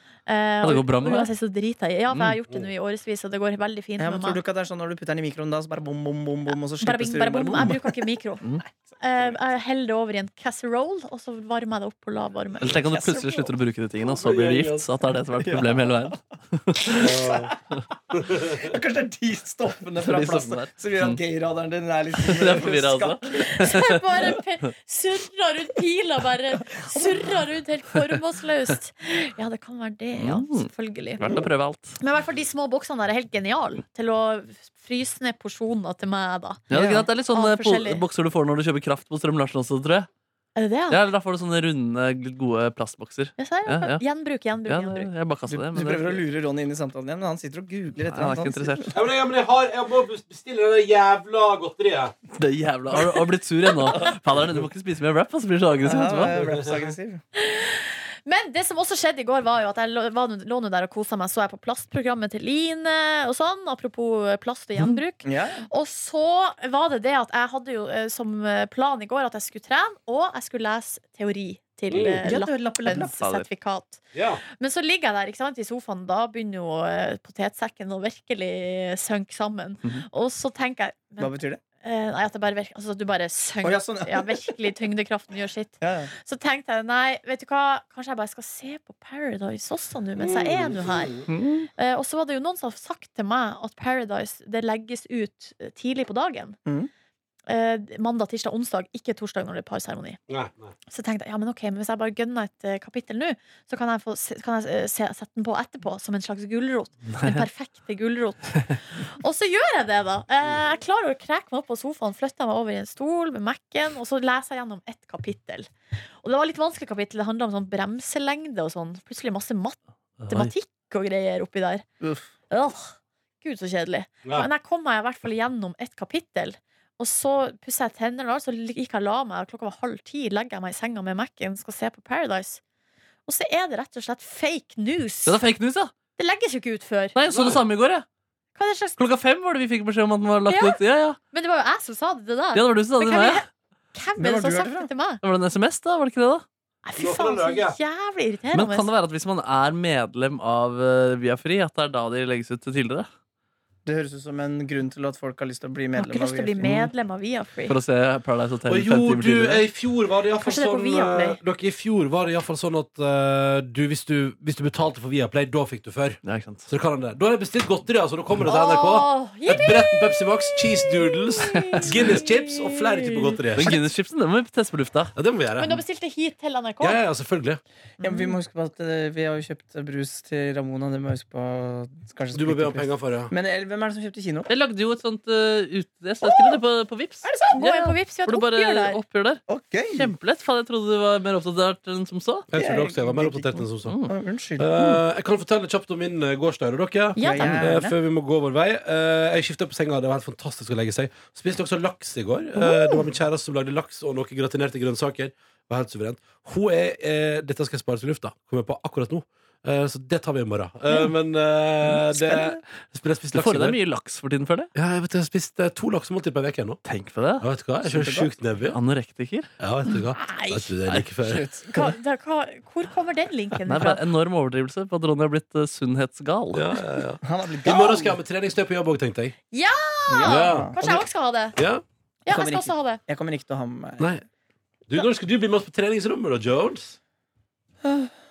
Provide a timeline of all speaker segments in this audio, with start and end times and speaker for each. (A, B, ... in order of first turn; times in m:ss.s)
0:00.2-0:04.4 A
0:00.6-0:01.3 B
0:04.0-0:08.1 C
0:06.8-0:08.4 A
0:08.9-0:09.4 C
0:09.0-0:12.8 A
0:12.6-0:13.5 C
0:12.6-0:17.2 B
0:14.0-0:14.9 D
0:15.3-0:16.2 C
0:16.8-0:24.2 C
0:16.9-0:17.5 D
0:20.0-0:21.2 B
0:22.2-0:24.0 B
0:23.4-0:31.3 A
0:26.6-0:27.4 C
0:30.2-0:32.0 B
0:32.0-0:38.0 A
0:36.7-0:40.1 B
0:36.7-0:37.0 C
0:40.5-0:41.0 A
0:40.9-0:44.0 B
0:43.4-0:45.1 A
0:44.7-0:46.2 B
0:45.5-0:49.0 C
0:48.1-0:48.9 B
0:48.9-0:52.1 D
0:52.3-0:56.4 B
0:55.8-0:57.2 C
0:56.2-0:56.9 D
0:57.3-1:31.1 A
1:05.2-1:05.6 C
1:11.9-1:12.2 D
1:12.2-1:13.2 C
1:13.2-1:13.5 B
1:14.1-1:14.4 D
1:21.2-1:21.6 C
1:23.6-1:24.7 C
1:25.8-1:26.1 C
1:30.2-1:31.3 D
1:31.3-1:31.7 B
1:31.8-1:36.6 A
1:37.5-1:40.2 A
1:40.3-1:40.7 D
1:40.9-1:55.7 A
1:56.2-1:59.8 A
2:00.2-2:00.5 B
2:00.3-2:01.8 A
2:02.5-2:12.6 A
2:13.2-2:15.4 A
2:15.2-2:15.9 B
2:16.2-2:17.2 A
2:17.1-2:18.0 B
2:17.3-2:17.6 D
2:18.5-2:19.0 A
2:19.0-2:21.2 B
2:20.5-2:25.2 A
2:22.5-2:23.4 B
2:24.2-2:24.9 C
2:25.2-2:26.4 B
2:26.8-2:28.9 A
2:27.0-2:27.8 D
2:28.5-2:33.1 B
2:33.8-2:36.9 C
2:36.0-2:37.8 A
2:37.7-2:39.6 B
2:38.7-2:53.8 D
2:40.4-2:41.4 A
2:46.2-2:46.7 B
2:48.5-2:53.7 A
2:53.5-2:55.1 B
2:55.1-2:55.8 D
2:55.6-2:57.0 A
2:56.8-2:57.6 D
2:58.0-3:04.5 C
2:58.0-2:58.4 A
3:02.3-3:03.3 D
3:04.5-3:12.4 B
3:06.2-3:06.6 C
3:07.2-3:07.7 C
3:07.5-3:09.0 A
3:09.5-3:10.1 C
3:12.5-3:14.0 D
3:12.5-3:15.0 C
3:13.8-3:14.1 B
3:14.6-3:33.8 D
3:17.2-3:17.6 A
3:17.2-3:17.9 C
3:22.6-3:23.1 C
3:32.1-3:32.6 C
3:33.3-3:34.7 B
3:34.7-3:36.8 D
3:36.8-3:37.4 B
3:37.4-3:38.8 D
3:37.8-3:38.3 C
3:38.7-3:39.5 B
3:39.6-3:41.4 D
3:40.1-3:40.7 A
3:41.2-3:42.0 C
3:41.7-3:44.0 A
3:43.6-3:46.8 B
3:46.5-3:49.3 D
3:47.2-3:48.2 C
3:49.5-3:51.6 A
3:50.1-3:51.0 C
3:50.2-3:51.0 D
3:51.6-3:51.8 D
3:52.2-3:53.0 A
3:52.3-3:54.1 C
3:54.9-3:57.0 D